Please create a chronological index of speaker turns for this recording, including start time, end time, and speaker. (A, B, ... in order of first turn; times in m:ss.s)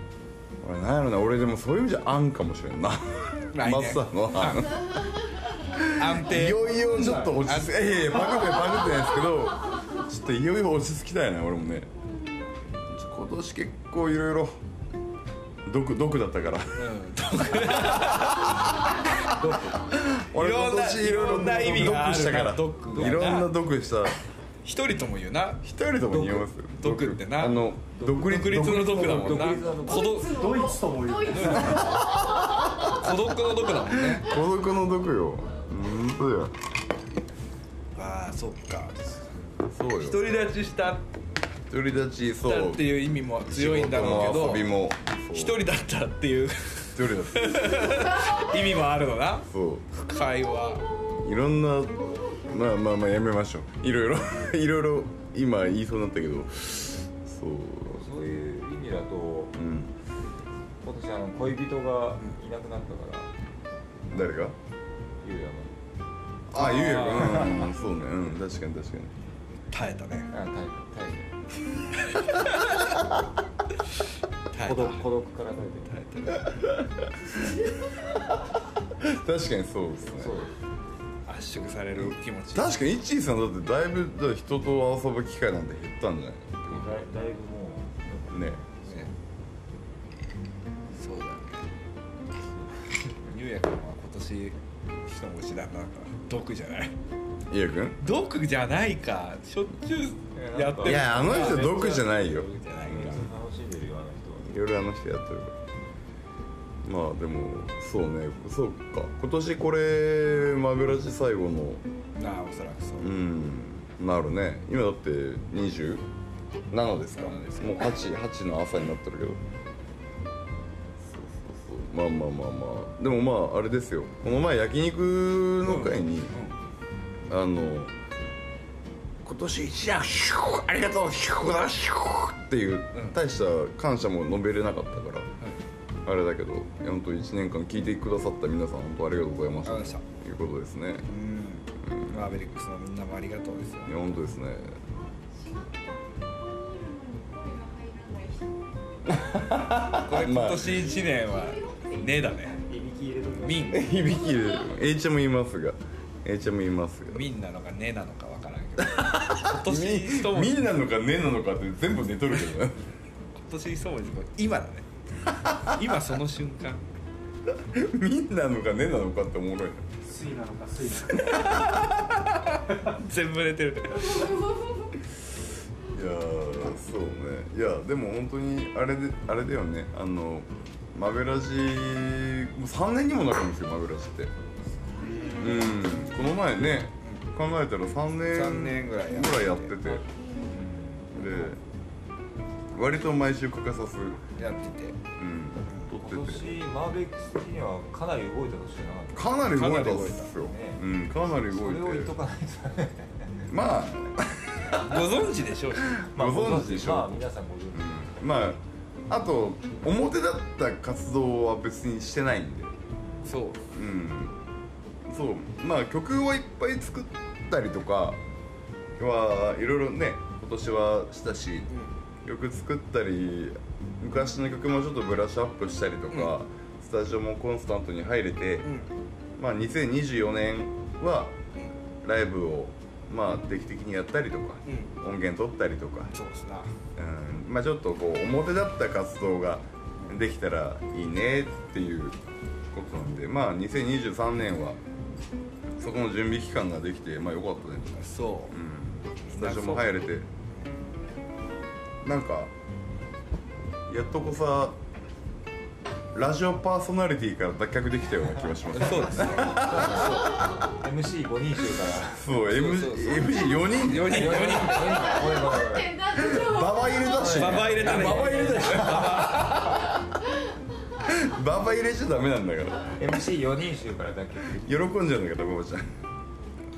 0:00.6-0:05.0 A
0:03.5-0:04.8 B
0:04.8-0:05.5 C
0:05.6-0:11.9 A
0:05.9-0:07.8 B
0:08.3-0:09.2 C
0:12.1-0:12.5 C
0:12.9-0:14.6 A
0:15.6-0:16.9 A
0:16.8-0:19.4 B
0:17.8-0:18.2 A
0:19.4-0:19.8 D
0:19.4-0:24.2 A
0:20.3-0:23.5 B
0:22.9-0:23.3 D
0:24.6-0:25.6 B
0:25.6-0:29.6 A
0:26.1-0:26.5 D
0:26.8-0:27.6 B
0:27.9-0:30.3 D
0:28.1-0:30.5 B
0:29.7-0:33.0 C
0:30.2-0:32.1 E
0:31.3-0:32.0 B
0:32.8-0:34.3 B
0:34.1-0:36.5 A
0:37.9-0:39.2 B
0:39.7-0:40.2 A
0:39.9-0:41.0 B
0:41.7-0:42.9 A
0:42.4-0:44.7 B
0:43.4-0:45.6 A
0:45.3-0:50.9 B
0:46.9-0:48.2 A
0:49.5-0:49.9 A
0:50.2-0:51.2 C
0:51.2-0:58.1 A
0:57.8-0:59.5 D
0:59.5-0:59.9 A
1:00.8-1:03.3 D
1:04.1-1:04.6 A
1:05.2-1:05.7 D
1:06.5-1:09.1 A
1:06.5-1:07.7 B
1:07.2-1:07.5 D
1:09.7-1:10.3 B
1:10.3-1:11.3 D
1:12.0-1:13.0 B
1:14.5-1:15.0 B
1:14.6-1:15.9 D
1:15.8-1:16.6 B
1:16.4-1:17.1 A
1:19.0-1:20.4 A
1:20.2-1:20.5 D
1:21.3-1:22.8 B
1:22.0-1:27.0 A
1:26.7-1:29.1 D
1:28.3-1:28.6 A
1:28.8-1:29.1 B
1:31.0-1:31.7 B
1:33.2-1:37.0 B
1:37.5-1:38.0 A
1:38.0-1:43.2 B
1:40.3-1:42.1 D
1:40.8-1:43.2 A
1:42.8-1:44.5 D
1:44.4-1:45.6 A
1:46.8-1:51.8 A
1:52.2-1:53.1 B
1:53.0-1:56.0 A
1:56.7-1:59.4 A
1:57.1-1:58.0 B
2:01.0-2:06.3 A
2:05.6-2:06.6 B
2:07.3-2:07.9 A
2:09.2-2:15.3 A
2:16.0-2:21.1 A
2:19.6-2:20.0 B
2:21.1-2:24.1 B
2:21.8-2:22.4 A
2:23.8-2:24.8 A
2:25.0-2:30.0 C
2:29.1-2:30.9 A
2:29.9-2:32.6 B
2:30.6-2:32.6 C
2:32.6-2:34.1 D
2:33.4-2:33.9 B
2:33.7-2:37.2 A
2:34.0-2:34.9 C
2:37.1-2:40.6 B
2:38.8-2:42.8 A
2:43.4-2:44.8 B
2:45.6-2:46.8 B
2:47.7-2:49.8 A
2:50.0-2:51.6 E
2:51.2-2:54.4 B
2:54.1-2:54.9 C
2:55.9-3:04.3 A
3:04.9-3:05.6 C
3:05.4-3:10.0 A
3:08.3-3:09.7 B
3:09.8-3:11.2 D
3:11.1-3:11.6 A
3:12.7-3:14.2 A
3:14.4-3:15.0 B
3:15.2-3:16.6 A
3:16.0-3:19.3 D
3:19.1-3:22.1 A
3:19.5-3:20.3 B
3:20.4-3:20.8 D
3:21.4-3:23.5 D
3:23.5-3:25.0 A
3:24.7-3:26.0 B
3:26.0-3:27.2 A
3:26.1-3:28.0 D
3:27.7-3:32.7 A
3:33.2-3:33.6 B
3:33.7-3:34.4 A
3:35.1-3:38.2 A
3:39.0-3:41.7 A
3:42.2-3:48.7 A
3:48.6-3:48.9 B
3:49.4-3:51.4 A
3:52.0-3:56.1 A
3:54.6-3:54.9 B
3:56.1-3:56.7 B
3:57.0-4:02.2 A
4:02.7-4:04.8 A
4:05.8-4:10.3 A
4:08.0-4:08.6 B
4:09.3-4:09.9 B
4:12.0-4:12.5 A
4:13.9-4:14.8 A
4:16.1-4:20.2 A
4:18.7-4:20.4 B
4:19.4-4:22.3 D
4:20.3-4:20.8 C
4:22.1-4:24.6 A
4:22.4-4:25.2 B
4:23.9-4:29.4 D
4:24.8-4:27.5 C
4:26.1-4:29.6 A
4:27.2-4:29.9 B
4:31.0-4:33.1 A
4:33.0-4:34.8 D
4:34.5-4:36.0 A